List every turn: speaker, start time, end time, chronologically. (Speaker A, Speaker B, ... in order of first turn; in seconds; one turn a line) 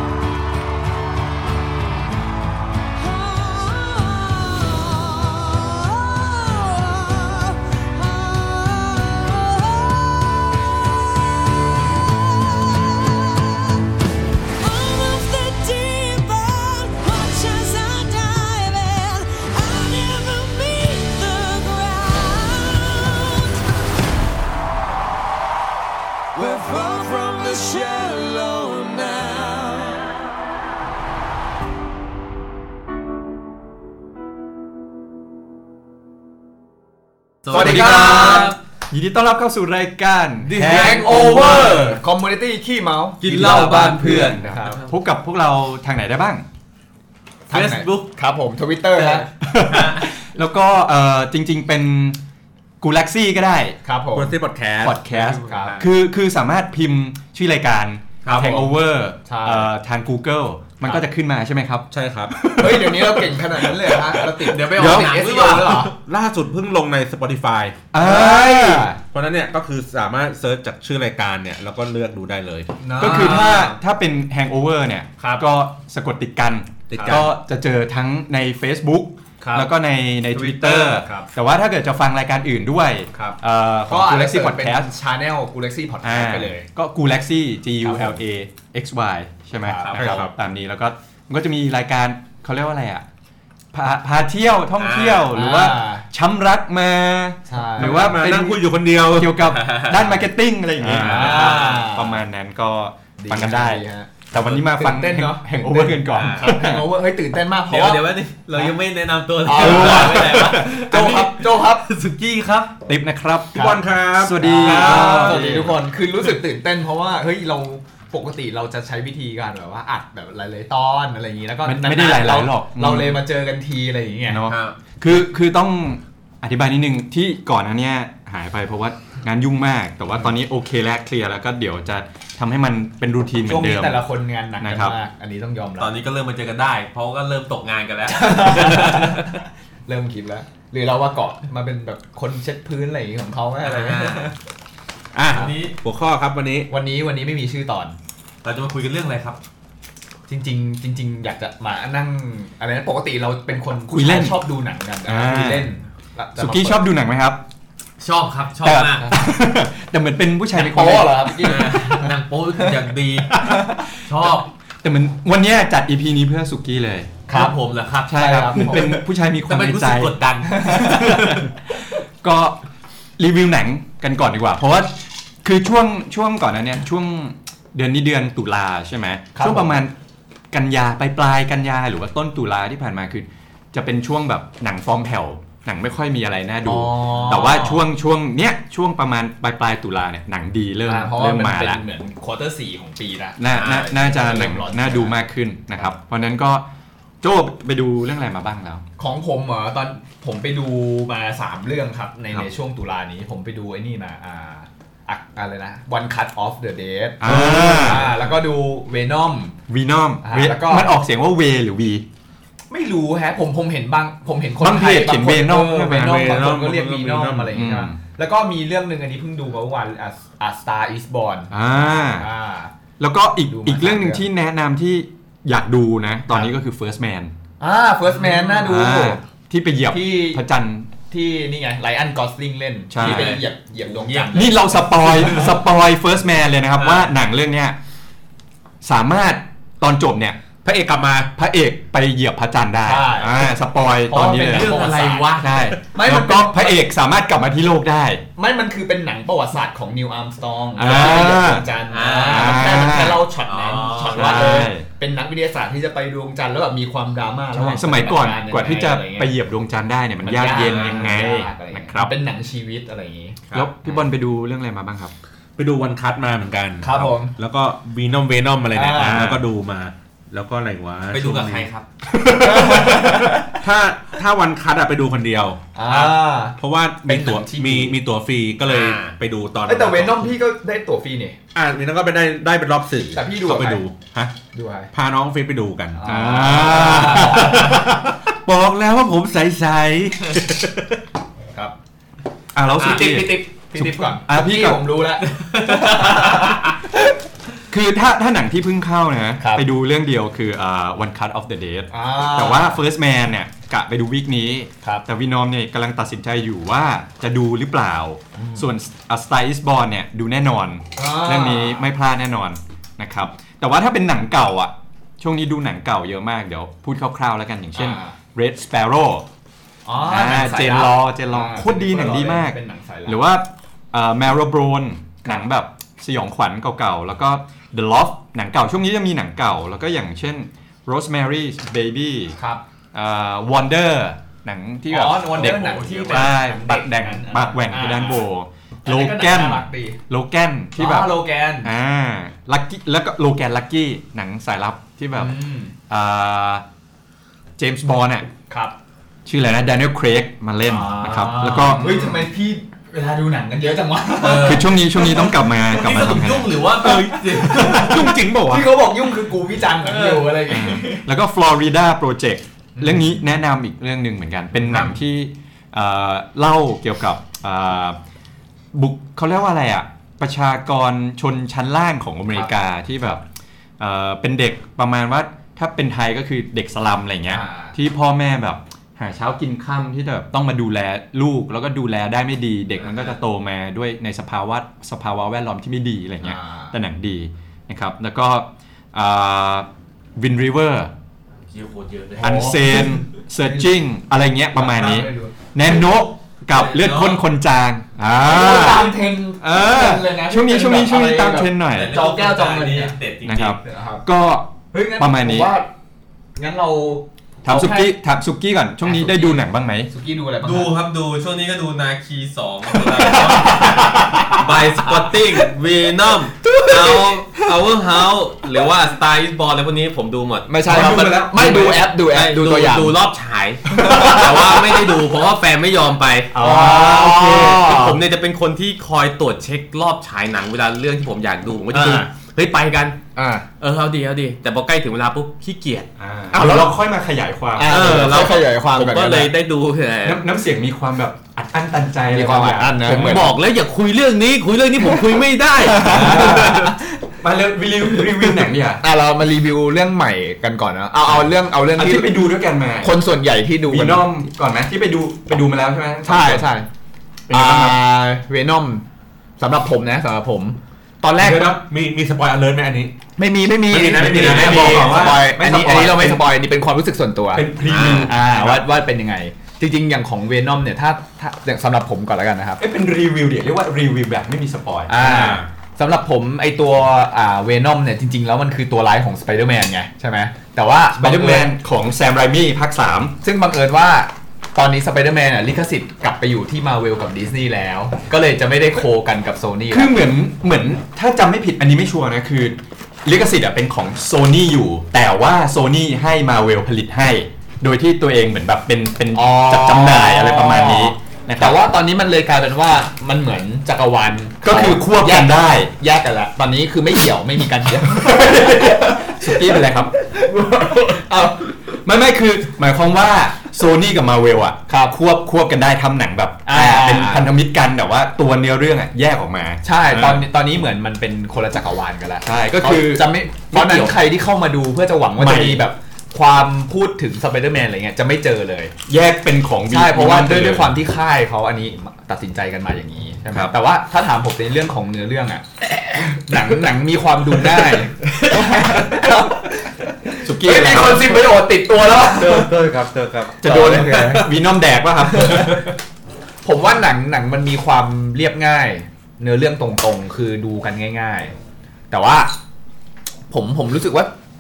Speaker A: 3.0-10.6
Speaker A: 12.2-13.8
Speaker A: 14.6-23.6
Speaker A: 26.3-30.2
Speaker B: 37.5-38.6
Speaker C: 37.5-38.5
Speaker D: 37.5-41.8
Speaker B: 40.5-42.0
Speaker C: 40.5-44.8
Speaker E: 40.5-41.9
Speaker B: 43.2-44.9
Speaker D: 43.4-46.4
Speaker B: 47.5-48.1
Speaker C: 47.5-49.3
Speaker B: 49.0-50.0
Speaker D: 49.4-52.2
Speaker D: 52.8-53.8
Speaker C: 53.8-54.3
Speaker E: 54.1-55.8
Speaker D: 54.8-63.9
Speaker C: 55.4-55.8
Speaker E: 58.2-58.5
Speaker C: 58.2-58.7
Speaker C: 59.2-59.7
Speaker E: 61.9-62.7
Speaker C: 62.6-65.9
Speaker E: 64.2-67.8
Speaker B: 64.5-65.9
Speaker D: 67.9-68.9
Speaker C: 68.0-69.0
Speaker E: 69.0-72.7
Speaker C: 72.8-73.6
Speaker B: 73.0-73.7
Speaker D: 73.0-84.9
Speaker C: 75.2-75.5
Speaker E: 76.9-77.3
Speaker C: 76.9-77.2
Speaker C: 79.4-79.7
Speaker C: 80.3-81.3
Speaker C: 83.1-86.7
Speaker D: 86.0-93.0
Speaker C: 87.8-88.2
Speaker C: 89.6-90.2
Speaker E: 89.9-90.3
Speaker D: 93.7-106.8
Speaker B: 94.8-95.3
Speaker C: 95.3-96.0
Speaker C: 97.5-98.2
Speaker E: 97.8-99.4
Speaker B: 99.5-99.9
Speaker E: 100.8-101.3
Speaker C: 100.9-102.2
Speaker B: 101.2-101.9
Speaker C: 103.2-108.0
Speaker B: 106.1-106.5
Speaker B: 107.7-112.7
Speaker C: 109.4-111.9
Speaker D: 109.5-110.6
Speaker E: 109.6-110.0
Speaker D: 112.9-115.7
Speaker E: 113.5-115.7
Speaker C: 113.5-113.8
Speaker C: 114.4-124.4
Speaker B: 114.8-115.1
Speaker D: 121.7-123.2
Speaker D: 124.3-134.0
Speaker B: 124.5-124.8
Speaker C: 133.4-136.0
Speaker D: 134.6-134.9
Speaker B: 135.8-139.3
Speaker C: 138.1-144.3
Speaker B: 143.6-144.3
Speaker E: 145.2-146.7
Speaker B: 145.3-145.7
Speaker C: 146.7-147.9
Speaker B: 148.4-149.4
Speaker C: 150.3-156.9
Speaker D: 153.9-154.4
Speaker D: 155.0-155.7
Speaker D: 156.4-157.4
Speaker B: 158.0-159.1
Speaker D: 158.6-161.6
Speaker C: 160.6-162.1
Speaker B: 161.4-164.5
Speaker C: 163.4-163.8
Speaker D: 164.8-167.1
Speaker C: 167.3-169.0
Speaker B: 167.3-171.5
Speaker D: 168.1-170.2
Speaker C: 170.5-171.2
Speaker D: 172.2-172.6
Speaker D: 173.2-179.9
Speaker C: 179.3-179.8
Speaker D: 180.5-191.8
Speaker C: 186.7-187.8
Speaker C: 190.8-195.2
Speaker D: 193.4-196.7
Speaker B: 193.5-193.8
Speaker D: 197.2-198.8
Speaker C: 199.0-209.5
Speaker D: 207.2-208.0
Speaker E: 207.2-208.2
Speaker D: 209.7-212.0
Speaker C: 210.2-210.9
Speaker C: 212.7-222.7
Speaker D: 214.6-216.3
Speaker E: 216.0-217.5
Speaker D: 217.5-218.0
Speaker D: 221.5-222.3
Speaker D: 223.0-227.3
Speaker C: 223.4-224.2
Speaker C: 227.6-229.2
Speaker D: 228.5-230.9
Speaker C: 229.9-230.4
Speaker C: 231.1-235.4
Speaker D: 232.9-233.4
Speaker B: 233.0-235.6
Speaker D: 234.3-237.8
Speaker B: 236.8-237.1
Speaker D: 238.8-240.4
Speaker E: 240.6-241.3
Speaker D: 241.3-244.8
Speaker C: 242.8-243.5
Speaker C: 244.1-245.3
Speaker B: 244.3-245.6
Speaker D: 245.4-248.2
Speaker C: 245.9-246.7
Speaker C: 248.4-259.3
Speaker D: 250.8-251.7
Speaker B: 251.9-254.6
Speaker D: 252.3-253.2
Speaker D: 254.1-254.9
Speaker D: 257.6-262.1
Speaker C: 260.2-263.4
Speaker D: 263.5-265.1
Speaker E: 265.6-271.7
Speaker C: 266.8-267.3
Speaker C: 268.7-269.3
Speaker D: 268.9-269.4
Speaker B: 271.1-271.9
Speaker D: 272.1-273.3
Speaker C: 272.3-273.6
Speaker E: 273.5-280.3
Speaker C: 275.8-278.0
Speaker B: 278.6-279.1
Speaker C: 279.6-281.4
Speaker E: 281.6-284.3
Speaker C: 283.1-283.8
Speaker C: 284.5-284.9
Speaker E: 284.9-291.0
Speaker C: 285.9-287.9
Speaker D: 286.1-287.8
Speaker D: 292.5-294.8
Speaker C: 292.8-297.1
Speaker B: 295.3-296.6
Speaker D: 297.7-319.2
Speaker C: 299.4-299.6
Speaker C: 301.9-302.8
Speaker C: 308.3-308.6
Speaker C: 310.9-311.8
Speaker C: 317.8-318.1
Speaker C: 319.9-323.2
Speaker D: 320.0-332.4
Speaker C: 332.4-332.6
Speaker D: 332.9-345.4
Speaker C: 334.9-338.2
Speaker E: 335.4-336.2
Speaker C: 338.9-340.0
Speaker C: 340.8-341.7
Speaker C: 345.1-345.7
Speaker D: 345.9-346.6
Speaker D: 347.6-348.3
Speaker C: 348.5-348.8
Speaker D: 349.2-351.9
Speaker C: 350.7-354.7
Speaker B: 351.8-352.2
Speaker B: 354.2-358.2
Speaker D: 354.2-356.6
Speaker E: 356.8-358.7
Speaker C: 356.8-361.1
Speaker B: 359.8-360.4
Speaker D: 360.5-368.0
Speaker C: 362.8-363.1
Speaker D: 368.7-373.2
Speaker D: 373.8-390.9
Speaker C: 377.3-377.7
Speaker C: 386.2-386.7
Speaker B: 391.5-392.8
Speaker C: 392.2-393.7
Speaker D: 392.2-401.9
Speaker C: 394.5-395.3
Speaker B: 396.5-397.2
Speaker C: 398.2-402.9
Speaker B: 401.7-403.6
Speaker D: 403.2-405.5
Speaker C: 403.6-404.0
Speaker C: 404.7-405.7
Speaker C: 406.4-407.9
Speaker D: 407.4-409.9
Speaker C: 408.8-410.7
Speaker B: 410.4-420.5
Speaker C: 412.8-415.5
Speaker C: 416.4-417.5
Speaker C: 420.5-423.0
Speaker D: 420.6-421.9
Speaker B: 422.1-433.0
Speaker C: 423.7-424.8
Speaker D: 423.9-424.2
Speaker D: 426.3-427.5
Speaker C: 426.3-428.0
Speaker C: 431.8-432.0
Speaker C: 433.1-433.4
Speaker B: 433.6-435.9
Speaker D: 436.0-438.0
Speaker C: 436.3-436.7
Speaker C: 437.6-439.3
Speaker B: 437.6-440.2
Speaker D: 440.0-443.1
Speaker C: 442.1-443.3
Speaker B: 442.8-446.7
Speaker C: 445.6-447.0
Speaker D: 445.8-448.8
Speaker C: 448.8-454.1
Speaker D: 451.1-453.0
Speaker D: 453.6-456.5
Speaker C: 456.0-456.7
Speaker D: 457.3-457.8
Speaker C: 457.3-458.8
Speaker C: 459.4-461.6
Speaker E: 461.2-462.9
Speaker C: 463.2-472.6
Speaker E: 463.7-465.2
Speaker D: 463.9-466.3
Speaker D: 467.3-468.6
Speaker B: 467.6-468.1
Speaker E: 467.8-468.1
Speaker D: 472.6-474.9
Speaker C: 474.9-481.5
Speaker E: 475.0-475.5
Speaker D: 480.9-483.1
Speaker C: 483.2-489.9
Speaker D: 489.7-501.6
Speaker C: 499.1-511.5
Speaker D: 504.4-505.7
Speaker D: 507.9-520.3
Speaker C: 514.7-515.0
Speaker C: 516.5-517.3
Speaker C: 519.6-528.7
Speaker D: 522.2-524.0
Speaker D: 525.2-525.6
Speaker D: 528.9-530.8
Speaker C: 529.7-542.5
Speaker D: 540.2-541.4
Speaker B: 542.1-544.2
Speaker D: 543.4-545.6
Speaker C: 543.5-544.0
Speaker C: 545.1-545.7
Speaker C: 546.4-551.4
Speaker C: 551.9-552.4
Speaker C: 553.3-554.1